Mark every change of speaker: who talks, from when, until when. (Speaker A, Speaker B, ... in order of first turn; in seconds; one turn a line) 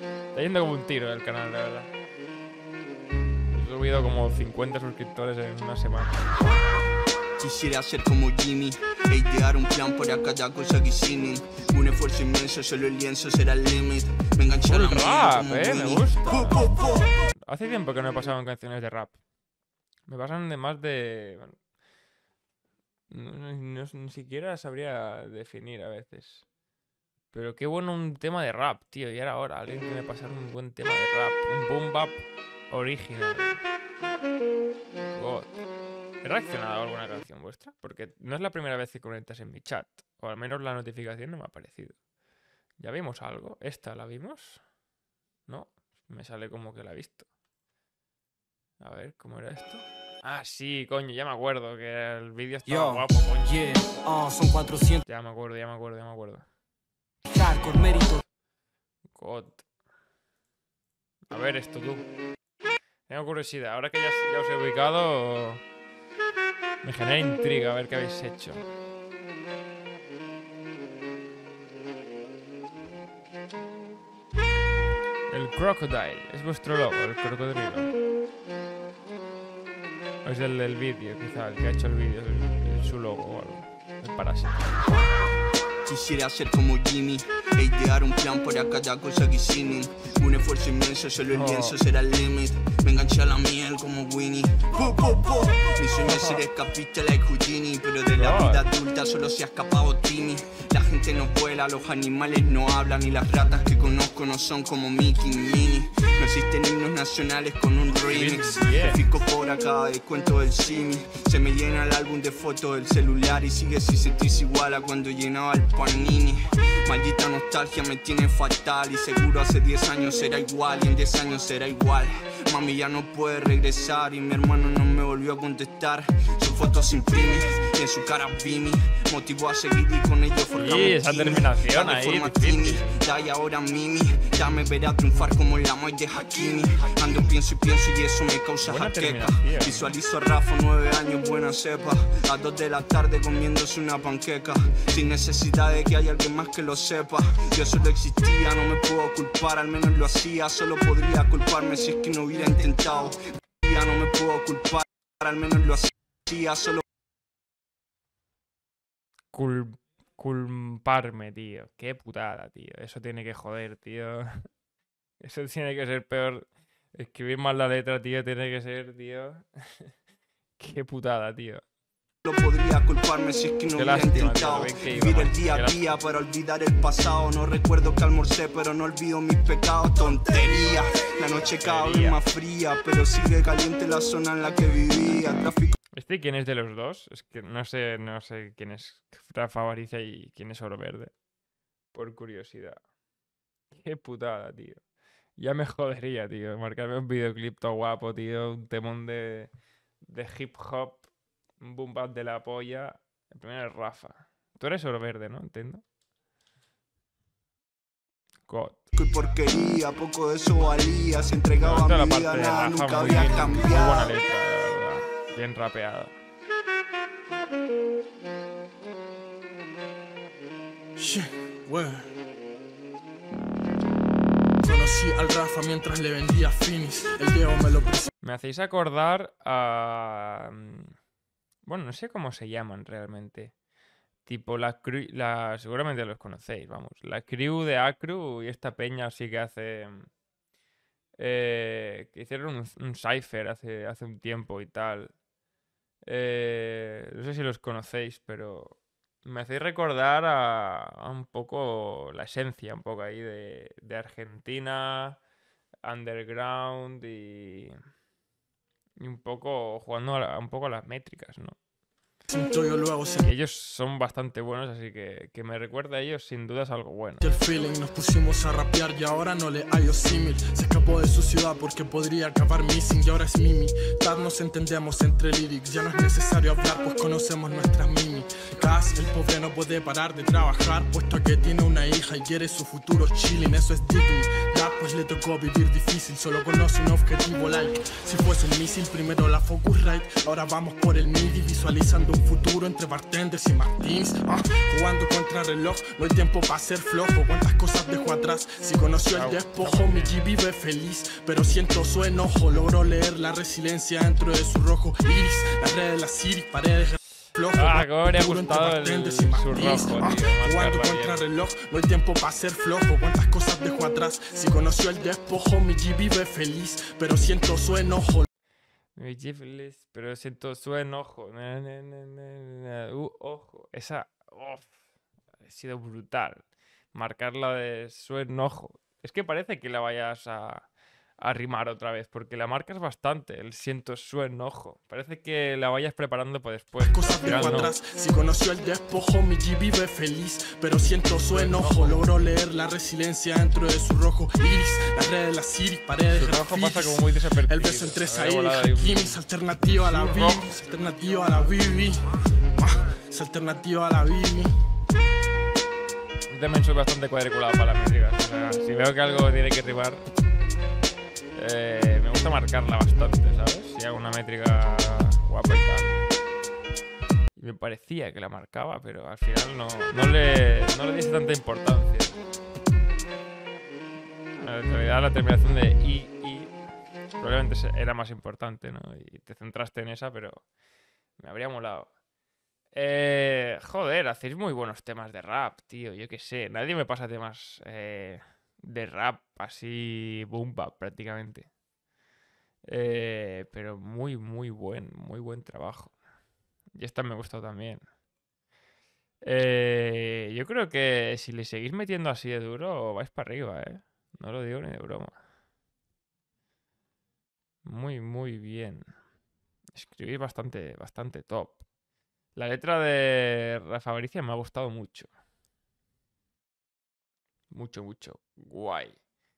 Speaker A: 0.3-1.9
Speaker A: 3.5-6.2
Speaker B: 7.4-17.1
Speaker A: 14.6-19.2
Speaker A: 20.1-21.6
Speaker A: 23.1-26.4
Speaker A: 27.3-33.6
Speaker A: 35.1-35.5
Speaker A: 36.2-42.0
Speaker A: 42.8-44.6
Speaker A: 45.5-47.3
Speaker A: 48.8-53.8
Speaker C: 52.7-55.0
Speaker A: 55.0-56.4
Speaker C: 57.3-58.2
Speaker A: 59.1-59.6
Speaker A: 61.3-62.1
Speaker A: 63.1-65.6
Speaker A: 66.8-68.7
Speaker A: 75.3-77.9
Speaker A: 80.2-84.8
Speaker B: 85.8-156.8
Speaker A: 91.3-91.8
Speaker A: 96.0-96.4
Speaker A: 98.2-98.7
Speaker A: 108.1-109.0
Speaker A: 130.6-133.0
Speaker A: 138.6-139.9
Speaker A: 159.3-164.3
Speaker A: 165.2-169.9
Speaker A: 170.6-171.6
Speaker B: 172.2-185.7
Speaker A: 173.7-175.9
Speaker A: 181.6-182.2
Speaker A: 185.9-191.1
Speaker A: 191.9-192.8
Speaker A: 193.7-194.8
Speaker A: 195.4-199.5
Speaker A: 200.0-201.1
Speaker A: 201.6-205.8
Speaker A: 208.5-208.8
Speaker B: 208.9-214.1
Speaker A: 211.6-216.1
Speaker D: 220.9-222.1
Speaker D: 224.6-228.1
Speaker A: 228.2-230.9
Speaker A: 231.7-233.5
Speaker A: 234.2-240.1
Speaker A: 241.2-245.1
Speaker A: 246.1-255.2
Speaker A: 255.8-257.8
Speaker A: 259.0-261.6
Speaker D: 262.3-263.3
Speaker A: 263.2-267.2
Speaker D: 267.2-318.3
Speaker A: 299.1-300.3
Speaker A: 307.5-311.2
Speaker A: 318.9-324.7
Speaker A: 325.4-330.7
Speaker A: 331.2-337.7
Speaker D: 336.8-354.5
Speaker A: 341.3-342.1
Speaker A: 346.1-350.5
Speaker A: 356.3-360.0
Speaker A: 361.3-366.0
Speaker A: 367.4-372.2
Speaker A: 374.4-376.5
Speaker A: 377.2-380.4
Speaker A: 381.2-381.9
Speaker A: 382.7-391.5
Speaker A: 392.7-395.9
Speaker A: 396.7-397.8
Speaker A: 399.2-405.1
Speaker A: 407.6-408.8
Speaker A: 409.7-411.6
Speaker A: 412.4-415.1
Speaker A: 417.5-419.0